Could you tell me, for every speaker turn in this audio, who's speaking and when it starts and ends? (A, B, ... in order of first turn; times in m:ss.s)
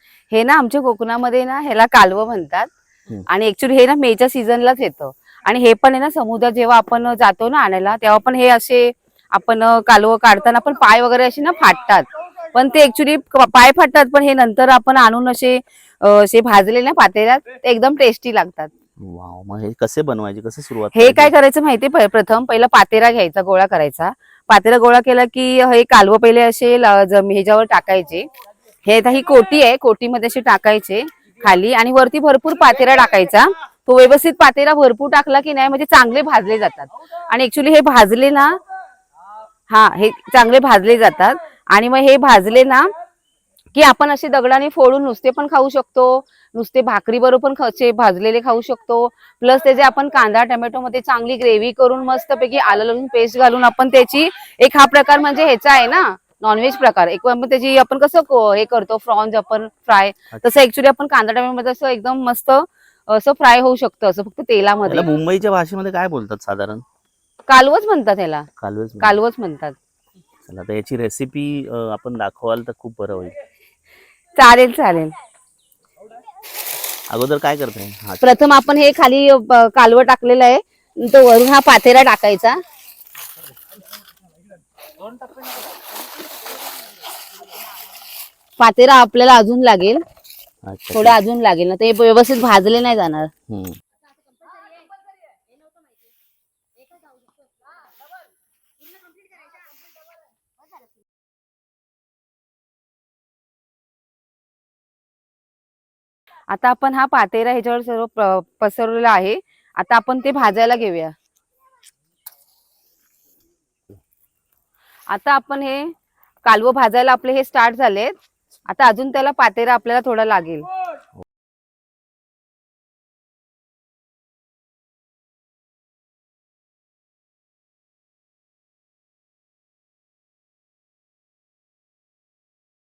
0:00.3-0:02.7 A
0:03.3-0:18.7 A
0:19.0-0:21.4 B
0:20.9-0:28.3 A
0:28.8-0:38.6 A
0:39.7-0:42.9 A
0:43.7-1:05.1 A
1:04.9-1:06.8 B
1:07.5-1:08.5 A
1:08.6-1:09.2 B
1:09.0-1:09.8 A
1:10.5-1:13.4 B
1:14.4-1:15.1 A
1:17.1-1:18.4 B
1:18.2-1:22.6 A
1:28.6-1:30.0 A
1:30.7-1:31.2 B
1:30.9-1:33.3 A
1:33.5-1:33.8 B
1:46.5-1:51.1 A
1:55.1-1:55.9 A
1:56.4-1:58.2 A
1:58.7-2:00.7 A